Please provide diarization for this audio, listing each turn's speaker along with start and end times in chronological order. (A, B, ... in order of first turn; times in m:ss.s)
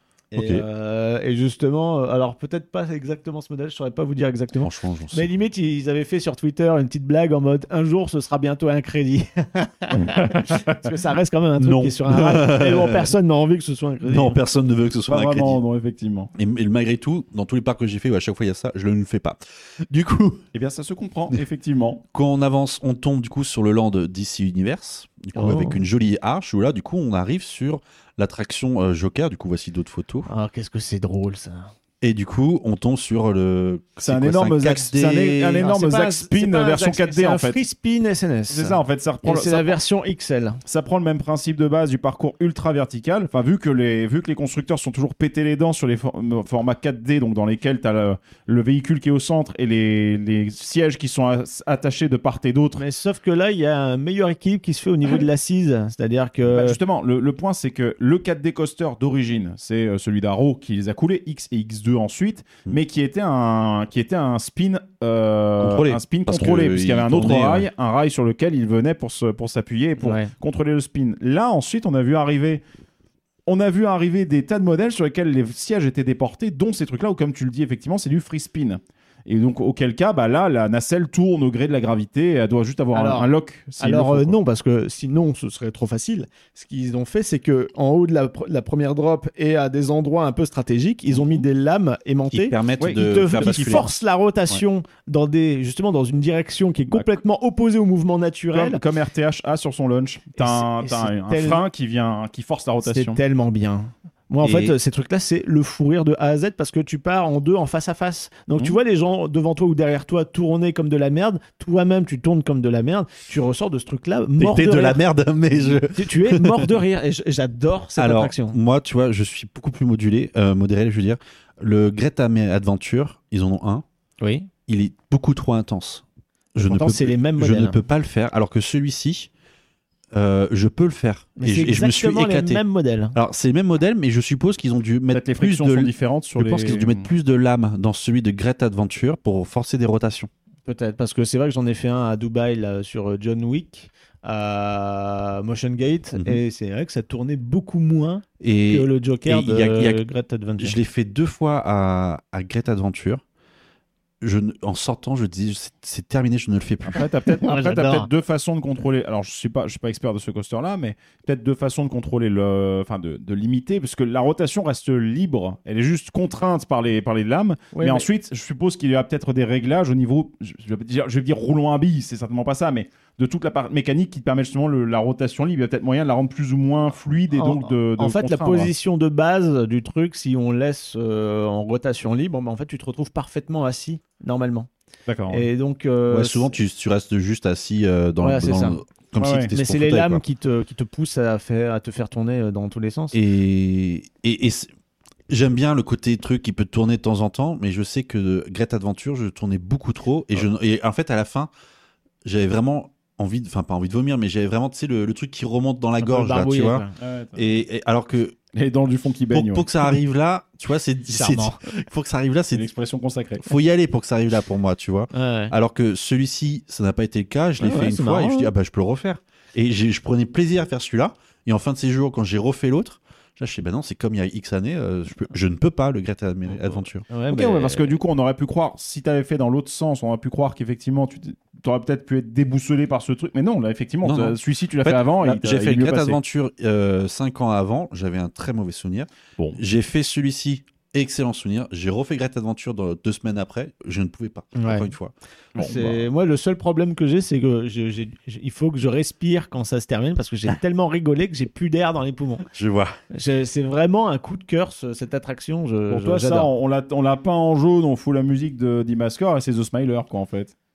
0:00.3-0:14.4 A
0:00.3-0:00.6 B
0:04.6-0:05.3 B
0:09.9-0:10.8 C
0:11.6-0:13.1 B
0:14.0-0:15.6 B
0:15.1-0:16.3 C
0:16.3-0:20.4 B
0:20.5-0:22.0 C
0:22.1-0:30.3 B
0:25.3-0:25.8 A
0:30.3-0:31.7 A
0:32.0-0:35.6 B
0:34.0-0:37.6 C
0:35.6-0:40.6 A
0:38.5-0:39.8 C
0:40.6-0:52.8 C
0:52.8-0:56.8 A
0:56.5-1:12.6 C
1:05.6-1:07.7 B
1:10.0-1:10.3 A
1:13.4-1:24.4 C
1:22.9-1:23.3 A
1:23.8-1:38.8 A
1:32.3-1:33.9 B
1:32.8-1:33.9 C
1:36.9-1:37.2 C
1:38.5-1:43.2 C
1:40.4-1:41.6 A
1:42.8-1:55.0 A
1:44.4-1:44.7 B
1:54.4-1:56.7 B
1:55.6-1:58.6 A
1:58.0-2:03.8 B
2:04.2-2:04.5 A
2:04.7-2:06.0 B
2:06.5-2:09.3 B
2:06.6-2:07.8 A
2:10.1-2:12.6 B
2:11.4-2:13.1 A
2:13.1-2:20.3 B
2:15.1-2:17.1 C
2:20.6-2:30.8 A
2:26.1-2:26.4 B
2:28.4-2:30.0 B
2:30.6-2:33.2 B
2:34.2-2:37.1 B
2:36.9-2:58.7 C
2:37.4-2:38.1 A
2:47.7-2:48.0 A
2:57.3-3:04.7 A
3:05.1-3:05.5 C
3:05.3-3:06.5 A
3:06.1-3:10.2 B
3:08.2-3:08.8 A
3:09.2-3:09.5 C
3:09.5-3:13.2 A
3:13.1-3:14.7 B
3:15.3-3:21.5 B
3:22.2-3:26.8 B
3:26.0-3:26.9 A
3:27.0-3:27.6 C
3:27.3-3:28.4 B
3:28.5-3:29.7 C
3:29.3-3:32.7 B
3:31.1-3:31.6 A
3:32.5-3:33.4 C
3:33.4-3:47.0 B
3:35.1-3:35.5 A
3:37.6-3:38.5 A
3:47.1-3:48.0 A
3:47.3-3:56.2 C
3:54.0-4:05.1 B
4:04.6-4:04.9 A
4:05.5-4:06.0 C
4:05.6-4:12.4 A
4:12.5-4:12.9 B
4:13.1-4:16.5 A
4:15.9-4:20.5 C